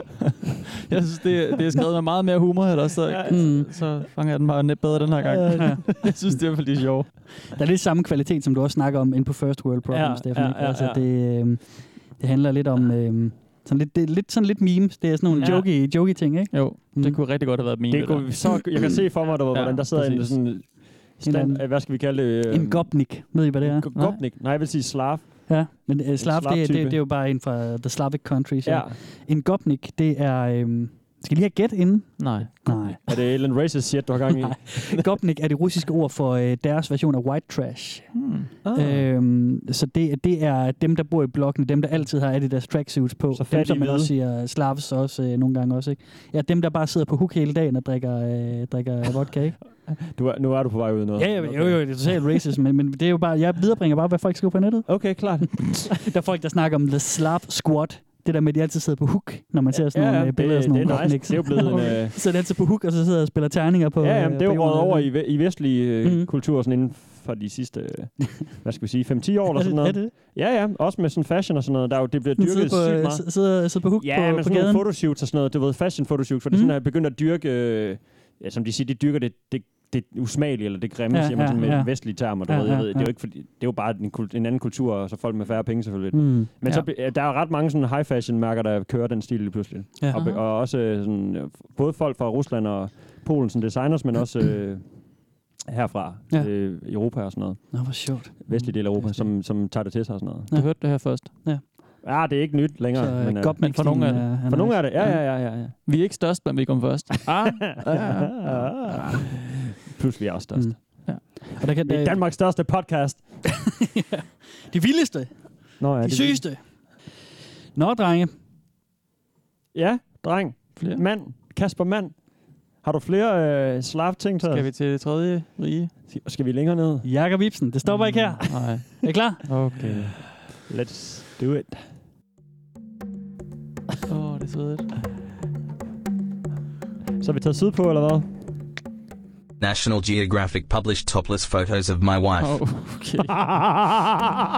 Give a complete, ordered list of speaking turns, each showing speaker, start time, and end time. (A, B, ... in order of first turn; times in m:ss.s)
0:00.9-0:07.2 A
0:03.3-0:03.7 B
0:05.3-0:05.8 C
0:07.5-0:17.2 B
0:09.9-0:11.1 C
0:15.3-0:18.8 A
0:17.9-0:27.0 C
0:19.3-0:20.7 A
0:21.2-0:23.9 B
0:24.0-0:24.2 A
0:25.5-0:33.2 B
0:28.7-0:29.0 C
0:32.2-0:33.0 A
0:33.1-0:34.9 C
0:34.5-0:49.6 B
0:38.2-0:38.5 A
0:38.6-0:39.1 C
0:43.3-0:44.1 C
0:49.8-0:52.2 C
0:51.2-0:55.4 B
0:54.9-0:55.9 C
0:56.0-1:06.3 B
0:59.7-1:02.2 C
1:01.6-1:02.0 A
1:04.0-1:40.5 C
1:09.6-1:10.1 B
1:12.4-1:14.8 B
1:21.1-1:23.1 B
1:26.1-1:26.8 B
1:30.0-1:30.4 B
1:37.7-1:39.3 B
1:40.5-1:41.6 B
1:40.5-1:41.4 A
1:42.0-1:43.6 C
1:42.9-1:45.2 B
1:43.6-1:44.4 A
1:44.4-1:45.8 C
1:45.0-1:49.1 A
1:47.3-1:51.0 C
1:50.5-1:52.3 B
1:51.1-1:51.5 A
1:51.9-1:53.4 C
1:53.7-1:57.1 B
1:55.8-1:56.5 C
1:57.8-1:58.3 B
1:59.7-2:04.7 C
2:00.8-2:01.0 A
2:04.4-2:05.9 A
2:06.1-2:07.1 C
2:07.0-2:09.5 B
2:07.8-2:10.3 A
2:09.8-2:11.9 C
2:14.1-2:14.9 A
2:17.2-2:18.3 C
2:19.6-2:22.8 D
2:22.4-2:23.4 A
2:23.3-2:24.4 C